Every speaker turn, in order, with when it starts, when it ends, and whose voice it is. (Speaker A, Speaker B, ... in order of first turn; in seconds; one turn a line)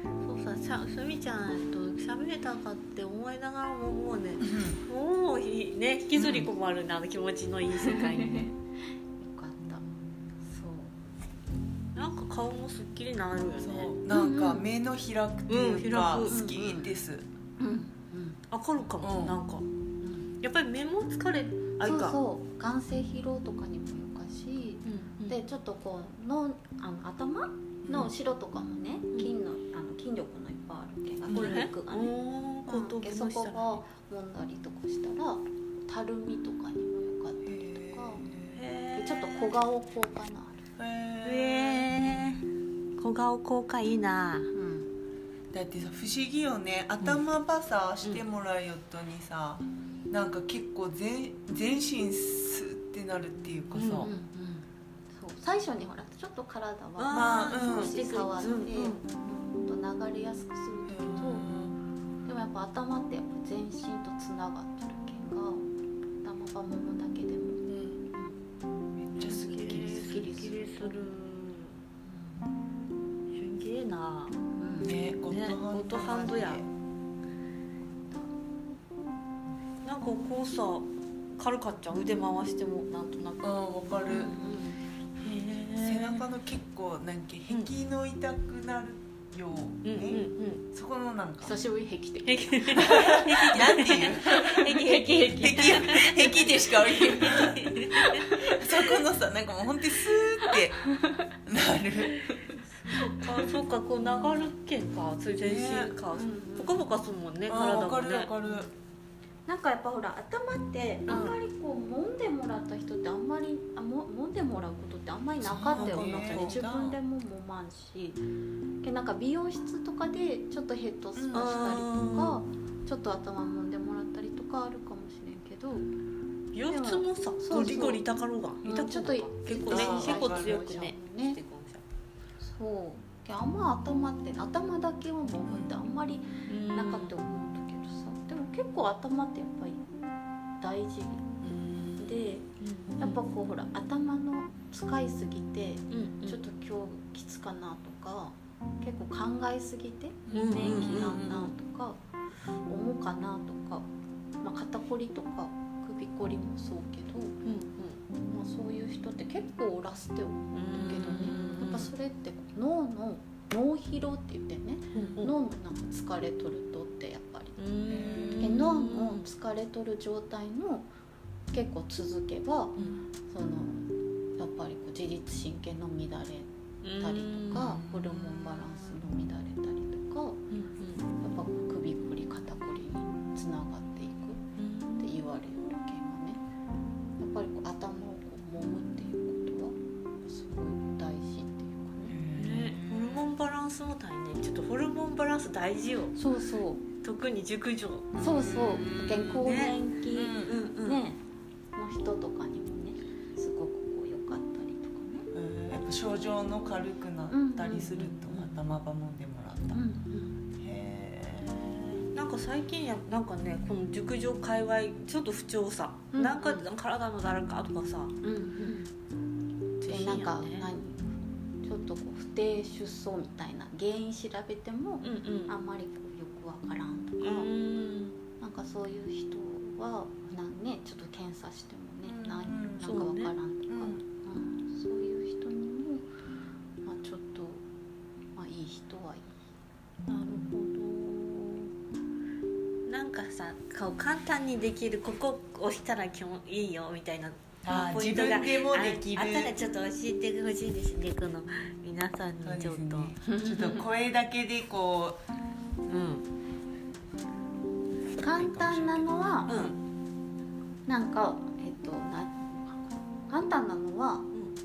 Speaker A: 0.2-8.5
Speaker B: 4.4-4.8
Speaker B: 6.2-6.5
Speaker C: 7.8-8.5
Speaker C: 9.2-9.8
Speaker C: 10.4-10.9
Speaker A: 11.9-13.9
Speaker B: 13.6-17.2
Speaker C: 14.1-14.7
Speaker A: 15.5-16.8
Speaker C: 16.2-16.9
Speaker C: 17.6-18.4
Speaker A: 18.5-19.6
Speaker B: 19.0-19.4
Speaker C: 20.0-20.3
Speaker A: 20.4-22.2
Speaker C: 21.8-38.3
Speaker A: 24.8-25.4
Speaker B: 27.8-28.1
Speaker B: 31.2-31.6
Speaker A: 31.3-33.8
Speaker B: 37.4-38.6
Speaker A: 38.5-39.5
Speaker C: 38.9-40.6
Speaker B: 40.8-42.4
Speaker A: 41.2-42.4
Speaker A: 43.0-44.5
Speaker C: 44.5-44.9
Speaker B: 45.5-54.1
Speaker A: 53.7-54.1
Speaker C: 54.0-61.5
Speaker A: 57.0-59.0
Speaker B: 57.1-57.9
Speaker B: 60.9-61.8
Speaker C: 62.2-65.7
Speaker C: 66.2-67.6
Speaker B: 67.6-68.0
Speaker B: 69.0-70.1
Speaker C: 69.2-71.1
Speaker A: 69.2-71.8
Speaker C: 72.0-72.5
Speaker A: 73.3-74.4
Speaker C: 74.5-75.0
Speaker B: 74.8-76.7
Speaker A: 75.3-76.6
Speaker A: 79.8-83.5
Speaker B: 83.4-84.3
Speaker C: 84.1-84.8
Speaker A: 85.2-86.3
Speaker B: 85.8-91.6
Speaker A: 89.8-90.6
Speaker C: 91.4-97.4
Speaker A: 92.2-98.3
Speaker B: 92.7-94.7
Speaker B: 95.4-97.8
Speaker C: 97.9-98.6
Speaker B: 98.5-100.8
Speaker B: 101.4-102.2
Speaker A: 102.6-108.3
Speaker B: 104.0-104.5
Speaker B: 105.4-106.0
Speaker C: 106.1-106.8
Speaker B: 107.5-108.7
Speaker C: 109.5-118.2
Speaker A: 111.1-111.4
Speaker B: 111.1-111.3
Speaker B: 115.4-117.0
Speaker A: 115.7-116.6
Speaker C: 118.8-125.9
Speaker B: 121.2-121.8
Speaker A: 121.3-122.4
Speaker A: 126.5-131.8
Speaker C: 126.6-128.0
Speaker C: 128.6-131.4
Speaker B: 129.7-130.7
Speaker C: 132.4-139.8
Speaker B: 135.4-135.7
Speaker A: 136.5-137.1
Speaker C: 140.6-141.4
Speaker B: 141.4-142.2
Speaker C: 142.0-142.4
Speaker A: 142.6-143.2
Speaker C: 143.0-152.0
Speaker A: 145.9-146.4
Speaker B: 150.3-151.4
Speaker A: 150.3-151.5
Speaker C: 152.7-153.9
Speaker C: 154.4-157.4
Speaker A: 157.4-158.0
Speaker C: 158.2-167.6
Speaker A: 160.5-161.9
Speaker B: 161.3-161.7
Speaker A: 164.9-165.3
Speaker A: 167.6-169.2
Speaker B: 167.9-168.6
Speaker C: 168.3-170.9
Speaker C: 171.5-172.8
Speaker C: 173.3-180.4
Speaker A: 176.8-177.8
Speaker B: 177.5-178.9
Speaker A: 180.5-181.1
Speaker C: 181.2-184.4
Speaker A: 184.6-185.1
Speaker C: 185.0-186.4
Speaker C: 187.2-192.2
Speaker B: 192.1-193.3
Speaker A: 192.3-196.2
Speaker C: 196.1-196.8
Speaker A: 197.0-198.1
Speaker B: 198.1-199.6
Speaker C: 198.2-201.2
Speaker A: 199.4-199.7
Speaker B: 200.1-200.6
Speaker A: 200.3-201.0
Speaker C: 201.7-205.3
Speaker B: 205.3-209.8
Speaker C: 207.3-208.6
Speaker C: 209.7-210.4
Speaker B: 210.6-212.0
Speaker A: 212.1-218.7
Speaker C: 216.1-216.7
Speaker C: 218.2-218.9
Speaker A: 219.8-220.7
Speaker C: 219.8-221.0
Speaker C: 221.6-227.5
Speaker A: 225.0-225.5
Speaker A: 227.2-228.2
Speaker C: 228.4-236.1
Speaker B: 232.1-232.9
Speaker A: 232.8-233.3
Speaker B: 233.7-234.0
Speaker C: 236.8-237.6
Speaker C: 238.3-239.3
Speaker A: 240.1-241.7
Speaker A: 242.8-253.1
Speaker B: 247.6-249.6
Speaker B: 252.4-255.2
Speaker C: 253.2-253.8
Speaker A: 255.9-256.2
Speaker B: 258.1-259.7
Speaker C: 258.2-259.6
Speaker A: 259.5-259.8
Speaker C: 260.9-264.3